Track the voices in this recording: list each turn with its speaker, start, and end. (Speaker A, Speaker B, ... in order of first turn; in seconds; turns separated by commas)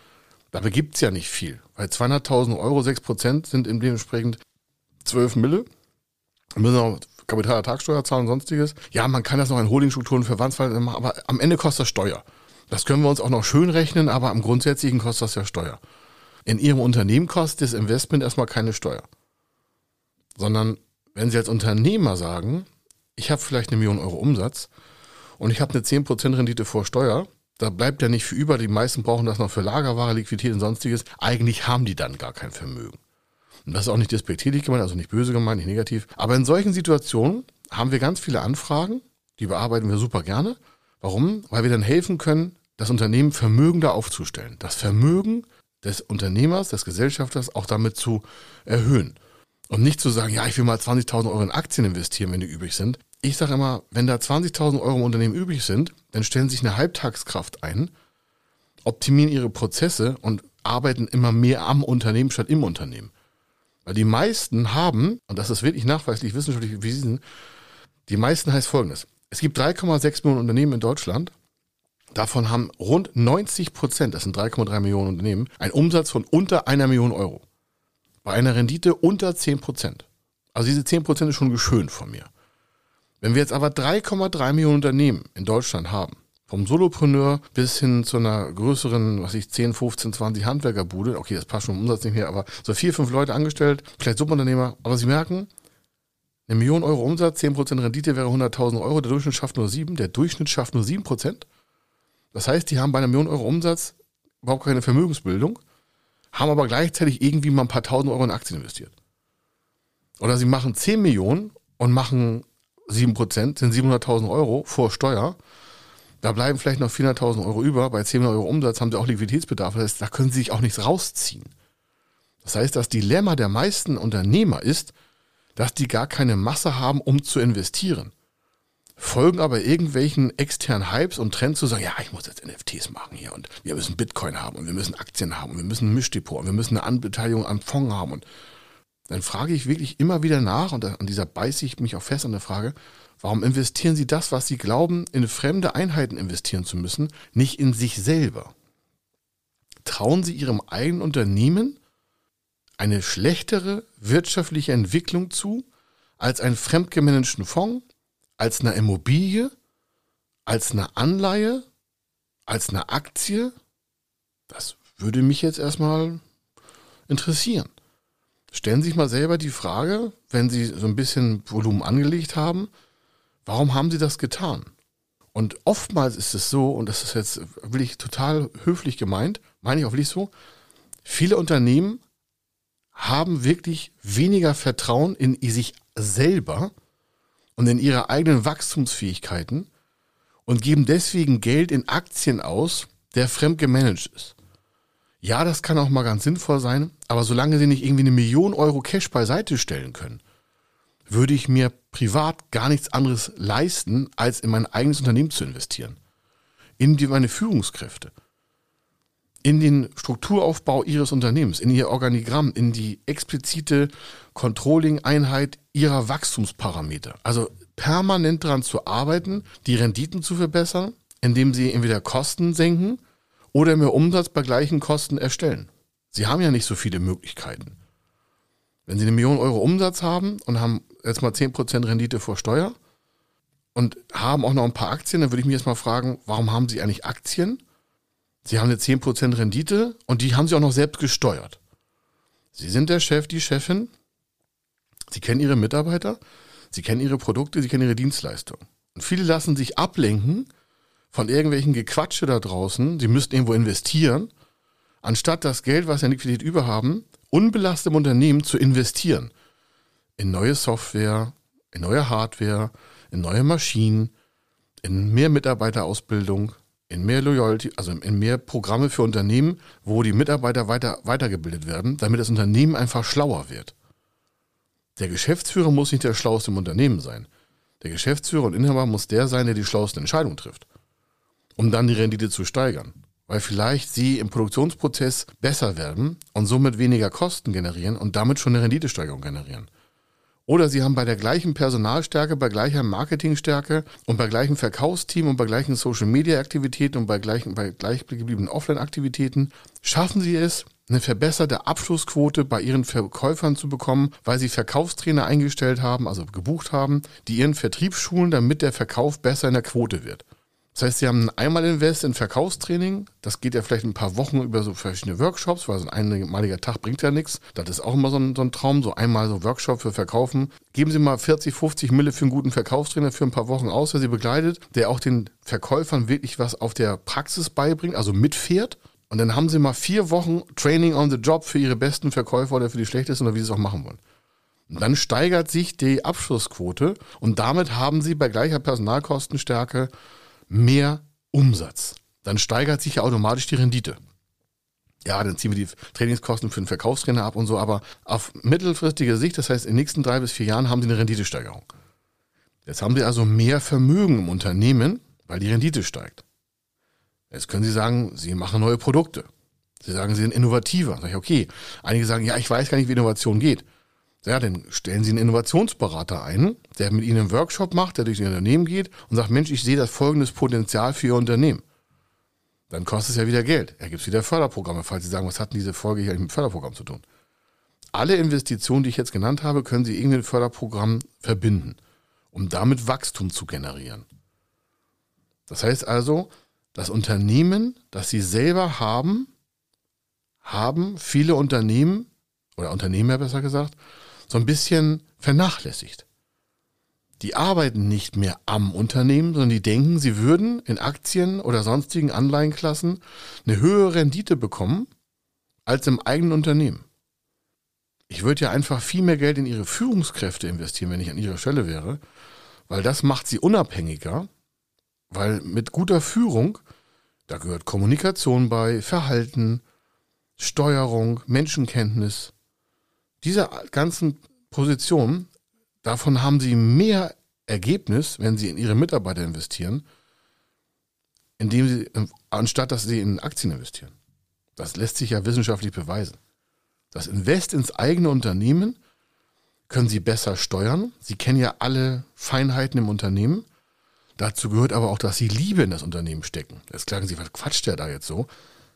Speaker A: 0.5-4.4, Speaker A: 5.0-5.7, Speaker A: 6.5-15.8, Speaker A: 16.4-19.1, Speaker A: 20.4-24.7, Speaker A: 25.4-33.0, Speaker A: 33.6-49.2, Speaker A: 49.7-57.9, Speaker A: 58.9-63.1, Speaker A: 63.8-67.2, Speaker A: 68.1-71.3, Speaker A: 72.1-77.4, Speaker A: 78.2-82.3, Speaker A: 83.2-95.5, Speaker A: 96.5-101.5, Speaker A: 102.3-105.6, Speaker A: 106.3-108.9, Speaker A: 110.2-115.3, Speaker A: 116.2-121.5, Speaker A: 122.4-124.9, Speaker A: 125.5-128.1, Speaker A: 129.0-138.2, Speaker A: 139.1-148.5, Speaker A: 149.8-151.8, Speaker A: 152.8-155.7, Speaker A: 156.2-157.8, Speaker A: 158.4-159.5, Speaker A: 160.4-161.6, Speaker A: 162.5-163.5, Speaker A: 164.5-166.2, Speaker A: 167.1-167.7, Speaker A: 168.5-172.7, Speaker A: 173.4-174.7, Speaker A: 175.3-180.3, Speaker A: 181.0-182.0, Speaker A: 182.9-186.7, Speaker A: 187.6-189.7, Speaker A: 190.4-194.3, Speaker A: 195.2-200.2, Speaker A: 201.1-206.0, Speaker A: 206.8-208.1, Speaker A: 209.4-223.0, Speaker A: 223.5-227.8, Speaker A: 228.9-232.8, Speaker A: 233.7-237.6, Speaker A: 238.4-241.6, Speaker A: 242.5-243.9, Speaker A: 245.1-246.2, Speaker A: 246.7-250.5, Speaker A: 251.1-254.3, Speaker A: 255.0-259.3, Speaker A: 260.2-264.1, Speaker A: 264.8-273.7, Speaker A: 274.9-277.3, Speaker A: 277.8-280.6, Speaker A: 281.6-289.7, Speaker A: 290.5-334.0, Speaker A: 334.7-339.9, Speaker A: 340.5-344.0, Speaker A: 345.0-351.7, Speaker A: 352.6-356.2, Speaker A: 357.3-359.3, Speaker A: 359.8-363.6, Speaker A: 364.2-371.6, Speaker A: 372.7-377.0, Speaker A: 377.9-381.8, Speaker A: 382.3-384.1, Speaker A: 385.5-389.3, Speaker A: 390.4-393.8, Speaker A: 394.3-396.0, Speaker A: 397.2-404.9, Speaker A: 405.6-406.8, Speaker A: 408.1-412.0, Speaker A: 412.7-414.3, Speaker A: 415.1-416.6, Speaker A: 417.3-419.6, Speaker A: 420.4-422.3, Speaker A: 423.2-425.3, Speaker A: 425.8-429.8, Speaker A: 431.4-433.9, Speaker A: 434.6-436.2, Speaker A: 436.9-438.8, Speaker A: 439.7-443.4, Speaker A: 444.2-448.3